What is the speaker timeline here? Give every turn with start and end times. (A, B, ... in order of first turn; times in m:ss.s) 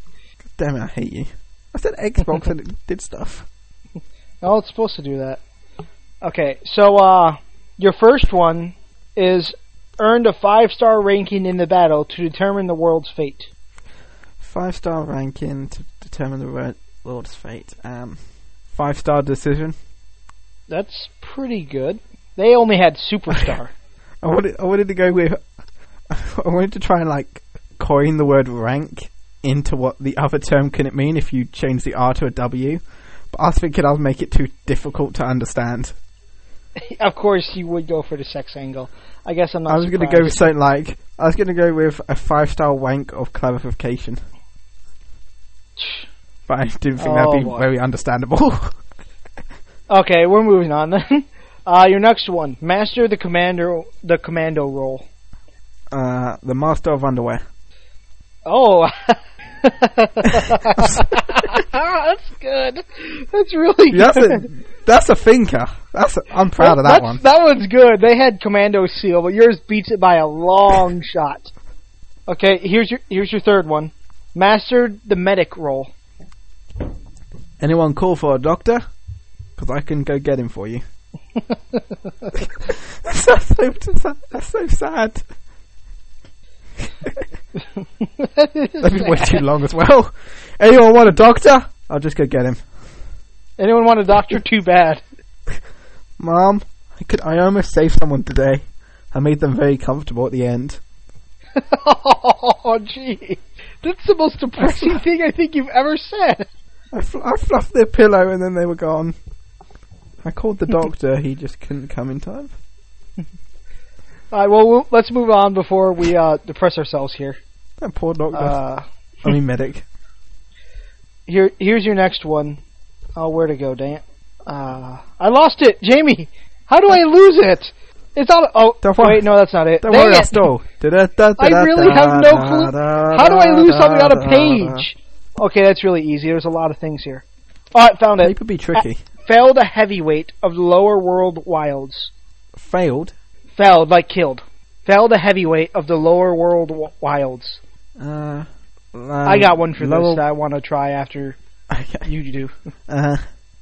0:00.5-0:03.5 A
0:04.4-0:05.4 B
0:06.2-0:13.5 B
0:14.4-0:18.2 A
0:18.7-0:19.8 A
0:20.7-0:23.7 B
0:24.2-0:25.4 A
0:26.1-0:32.8 A
0:33.3-0:36.0 A
0:36.8-0:40.5 B
0:39.7-0:44.2 A
0:45.8-0:46.0 B
0:46.5-0:48.8 A
0:47.0-0:47.6 B
0:49.9-0:55.0 B
0:55.9-0:57.4 A
0:58.5-1:04.5 B
1:00.2-1:01.1 A
1:03.9-1:07.2 A
1:06.6-1:11.5 B
1:12.3-1:15.9 B
1:17.6-1:18.8 A
1:19.6-1:20.8 A
1:22.3-1:25.2 A
1:28.0-1:29.4 B
1:28.8-1:32.6 A
1:33.6-1:35.0 B
1:36.2-1:40.8 A
1:41.6-1:46.5 B
1:44.6-1:45.0 A
1:46.9-1:49.2 A
1:50.2-1:52.5 A
1:54.3-1:57.4 B
1:57.8-1:58.6 A
1:58.3-1:58.8 B
1:59.2-1:59.8 A
2:01.3-2:02.6 B
2:03.2-2:10.4 B
2:08.8-2:09.3 A
2:09.8-2:14.9 A
2:11.4-2:22.1 B
2:18.2-2:19.0 A
2:22.6-2:23.1 A
2:23.6-2:27.6 B
2:28.0-2:30.2 A
2:29.2-2:31.4 B
2:31.7-2:32.1 A
2:32.0-2:32.5 B
2:32.9-2:33.2 A